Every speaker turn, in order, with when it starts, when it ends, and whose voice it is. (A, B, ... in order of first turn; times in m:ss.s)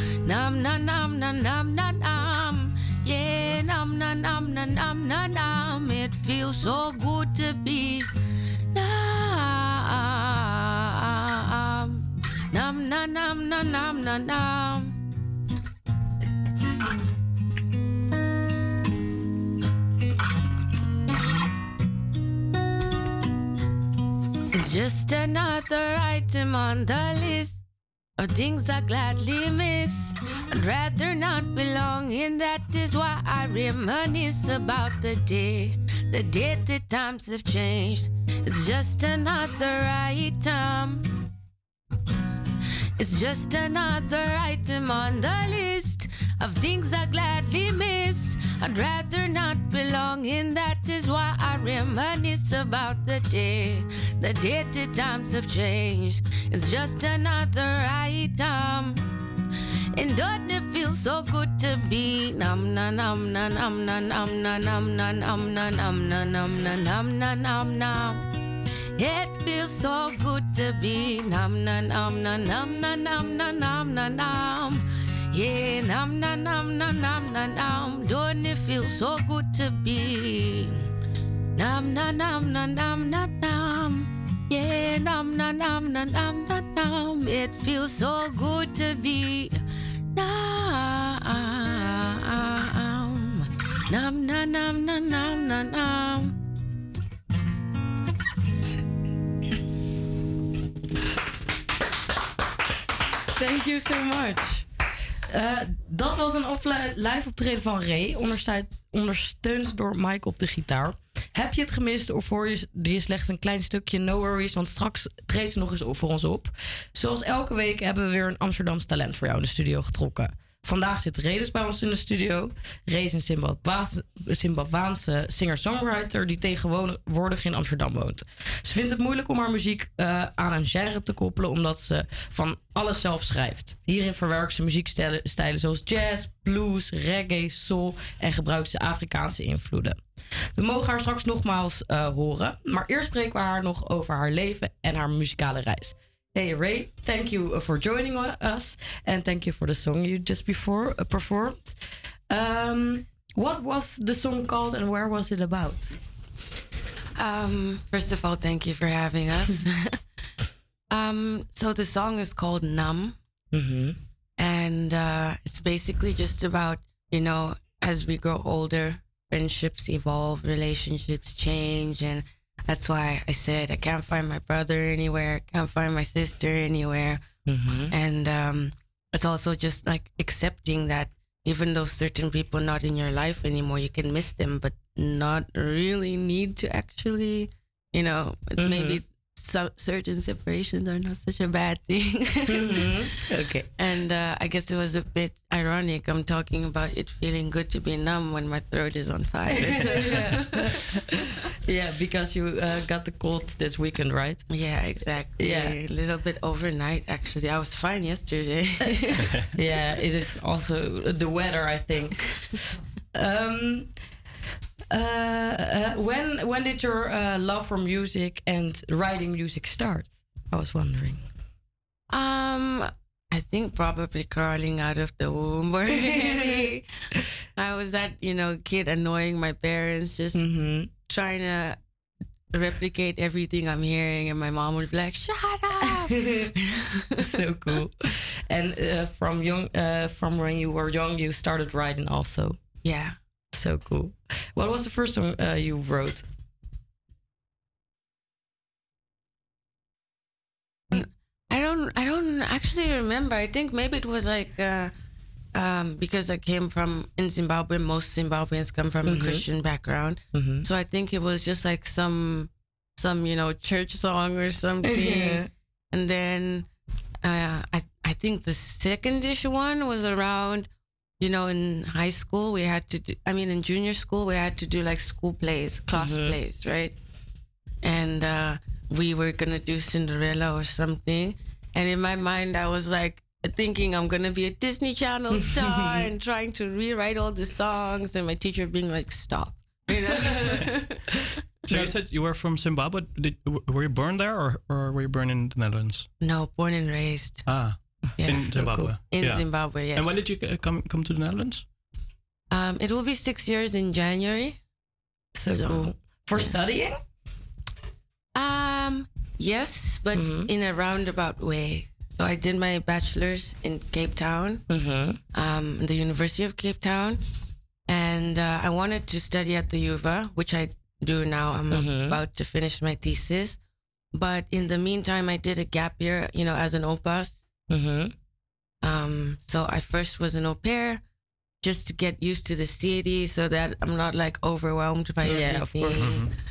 0:00.2-0:08.1 A
0:08.7-0:14.9 A
0:24.5-0:27.6 A
0:28.2-0:41.0 A
0:43.0-0:59.0 A
1:00.0-1:08.2 A
1:09.0-1:20.8 A
1:21.6-1:29.6 A
1:30.1-1:36.3 A
1:43.4-1:44.6 B
1:45.3-2:20.0 B
2:20.6-2:31.8 B
2:32.3-2:35.9 B
2:37.2-2:40.0 A
2:40.9-2:43.2 A
2:43.5-2:44.0 B
2:44.4-2:57.2 A
2:57.5-2:57.9 B
2:57.8-3:13.2 A
3:08.6-3:09.0 B
3:12.6-3:13.7 B
3:13.8-3:20.8 A
3:19.6-3:20.7 B
3:21.7-3:24.4 B
3:24.5-3:29.3 A
3:25.4-3:25.7 B
3:29.5-3:32.2 B
3:33.1-3:33.9 B
3:34.9-3:41.2 B
3:42.1-3:46.8 A
3:47.6-3:50.5 A
3:50.4-3:50.9 B
3:51.0-3:51.8 A
3:52.5-3:57.4 A
3:57.2-3:58.0 B
3:58.5-4:02.6 B
4:02.8-4:03.2 A
4:03.5-4:06.2 B
4:10.9-4:14.9 A
4:15.5-4:26.7 A
4:19.1-4:19.4 B
4:20.3-4:20.6 B
4:24.9-4:25.5 B
4:27.2-4:30.7 A
4:31.2-4:36.9 A
4:36.0-4:36.4 B
4:37.8-4:51.0 A
4:51.7-4:51.9 A
4:51.7-4:56.1 C
4:56.2-4:57.4 A
4:57.4-5:01.6 C
4:58.2-5:00.2 A
4:58.5-4:59.0 B
5:02.5-5:04.6 A
5:05.3-5:07.0 B
5:05.5-5:06.5 A
5:08.3-5:14.6 A
5:10.2-5:10.5 B
5:14.7-5:15.2 B
5:15.3-5:17.2 A
5:17.9-5:23.6 A
5:21.7-5:22.2 B
5:24.1-5:27.4 A
5:27.7-5:28.1 B
5:28.8-5:31.0 A
5:31.6-5:36.3 A
5:35.2-5:36.1 B
5:36.0-5:36.3 C